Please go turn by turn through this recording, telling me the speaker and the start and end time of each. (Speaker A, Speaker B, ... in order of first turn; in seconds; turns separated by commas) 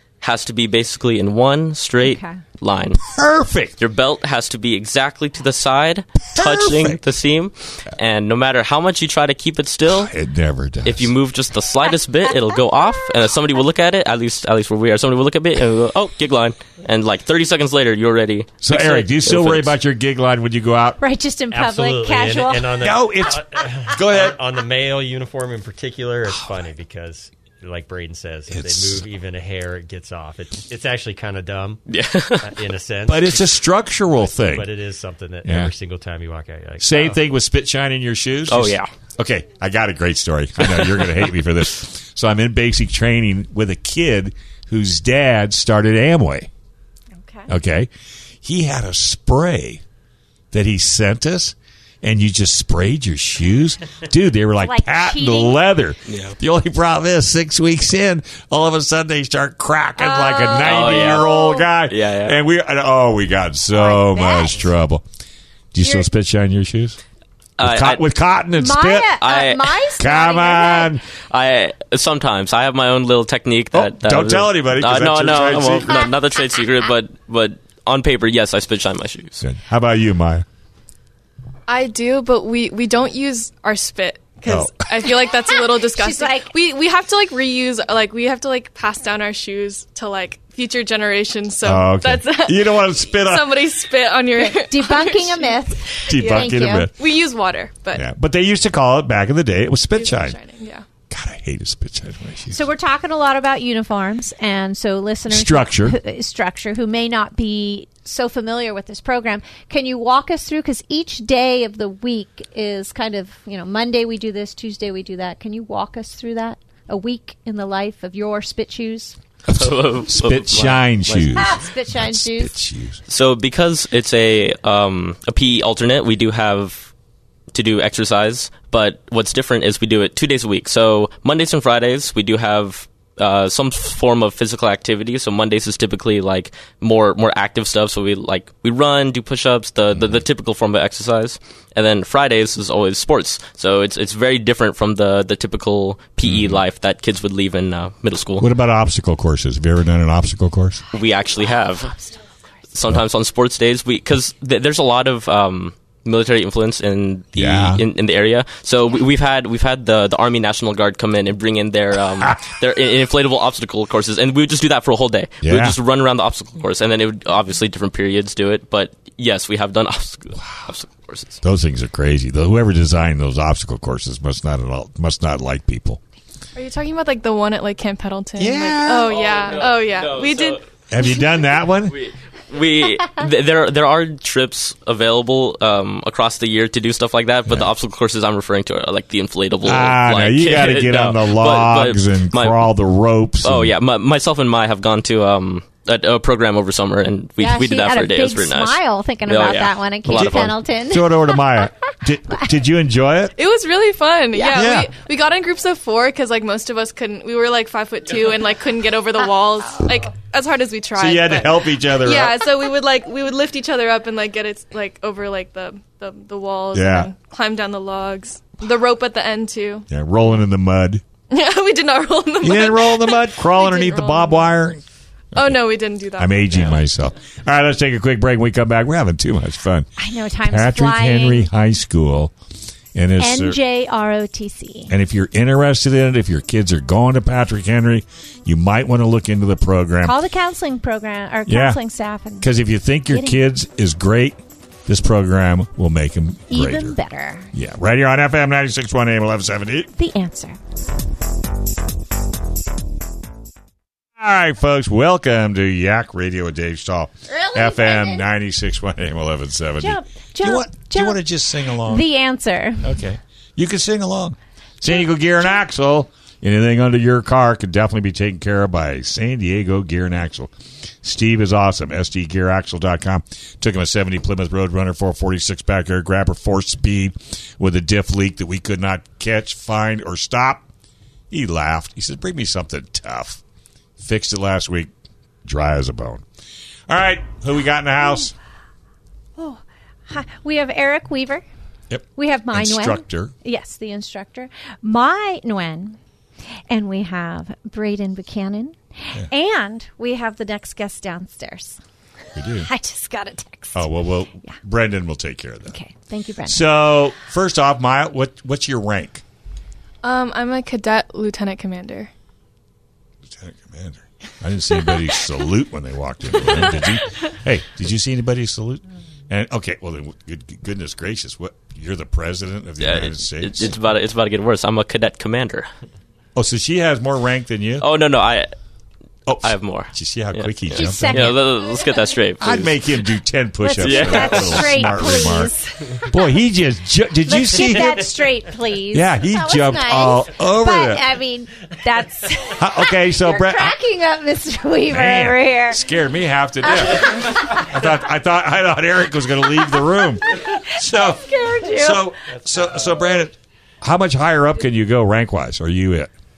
Speaker A: 0.2-3.0, Speaker B: 2.0-2.4, Speaker C: 3.0-3.8, Speaker A: 3.8-10.1, Speaker C: 6.3-7.0, Speaker C: 9.9-11.1, Speaker A: 10.8-19.7, Speaker C: 18.6-21.0, Speaker B: 21.0-22.8, Speaker D: 21.5-31.8, Speaker C: 22.8-24.4, Speaker C: 28.5-29.1, Speaker A: 31.9-32.5, Speaker D: 32.4-33.5, Speaker C: 33.1-34.7, Speaker D: 34.2-37.2, Speaker C: 35.5-35.7, Speaker C: 36.8-46.5, Speaker A: 38.5-38.9, Speaker A: 40.7-41.1, Speaker B: 47.2-47.5, Speaker C: 47.5-47.9, Speaker C: 48.4-49.8, Speaker C: 50.5-65.0, Speaker B: 54.6-55.6, Speaker A: 56.1-56.4, Speaker B: 60.0-61.6, Speaker A: 60.6-61.3, Speaker A: 61.9-62.4, Speaker B: 63.7-64.7, Speaker C: 65.7-67.0, Speaker A: 67.6-68.0, Speaker C: 67.6-69.2, Speaker B: 68.6-70.9, Speaker A: 69.2-69.7, Speaker C: 70.0-71.0, Speaker A: 71.3-79.4, Speaker C: 73.7-76.1, Speaker C: 79.4-80.5, Speaker E: 81.7-98.0, Speaker C: 84.5-84.9, Speaker B: 85.5-86.5, Speaker C: 91.7-93.5, Speaker B: 94.4-96.9, Speaker C: 96.1-96.9, Speaker C: 97.9-100.4, Speaker E: 100.0-100.8, Speaker C: 101.1-102.7, Speaker B: 102.5-119.2, Speaker C: 105.3-106.0, Speaker C: 119.5-123.0, Speaker A: 119.5-121.5, Speaker B: 121.3-122.5, Speaker A: 123.1-126.9, Speaker A: 127.5-148.5, Speaker C: 139.9-140.2, Speaker C: 146.2-146.6, Speaker C: 148.4-150.8, Speaker A: 150.9-151.9, Speaker A: 152.7-171.4, Speaker C: 157.4-157.8, Speaker C: 165.4-165.8, Speaker C: 171.4-176.0, Speaker E: 176.6-180.6, Speaker C: 178.4-179.7, Speaker A: 179.1-180.6, Speaker C: 180.9-182.0, Speaker A: 181.9-192.7, Speaker C: 189.6-193.7, Speaker A: 193.4-200.6, Speaker B: 197.4-201.7, Speaker C: 200.1-203.3, Speaker E: 203.4-219.9, Speaker C: 204.5-204.9, Speaker C: 211.0-212.4, Speaker C: 216.7-217.1, Speaker C: 219.9-221.0, Speaker E: 221.3-224.5, Speaker C: 222.4-224.8, Speaker C: 225.3-225.6, Speaker E: 225.3-226.8, Speaker C: 226.2-229.9, Speaker B: 230.0-231.5, Speaker C: 230.4-232.3, Speaker C: 232.9-233.6, Speaker B: 233.2-234.9, Speaker C: 234.9-240.2, Speaker B: 240.0-242.5, Speaker C: 241.5-241.8, Speaker C: 242.4-247.0, Speaker B: 243.1-243.4, Speaker B: 246.5-247.5, Speaker C: 247.5-249.9, Speaker B: 249.9-250.6, Speaker C: 254.2-262.1, Speaker B: 257.3-258.3, Speaker B: 259.8-261.2, Speaker B: 261.8-262.9, Speaker C: 262.8-280.7, Speaker C: 281.3-283.4, Speaker C: 284.0-284.9, Speaker C: 285.4-286.2, Speaker C: 286.9-288.3, Speaker B: 289.4-291.4, Speaker C: 291.9-293.3, Speaker B: 292.2-296.0, Speaker B: 296.7-301.8, Speaker C: 302.4-302.7, Speaker B: 302.6-303.9, Speaker C: 303.7-305.8, Speaker B: 305.7-306.7, Speaker C: 306.5-309.2, Speaker E: 310.0-312.1, Speaker C: 313.3-323.7, Speaker A: 322.8-325.7, Speaker C: 326.4-327.9, Speaker A: 327.8-328.5, Speaker C: 329.3-331.4, Speaker A: 329.4-330.5, Speaker B: 330.7-331.8, Speaker A: 331.1-333.0, Speaker C: 332.4-335.5, Speaker B: 333.6-336.1, Speaker A: 333.8-335.0, Speaker C: 336.1-338.1, Speaker B: 337.2-345.8, Speaker C: 338.9-341.1, Speaker C: 342.6-343.8, Speaker C: 344.9-356.1, Speaker B: 346.7-347.5, Speaker B: 350.5-352.1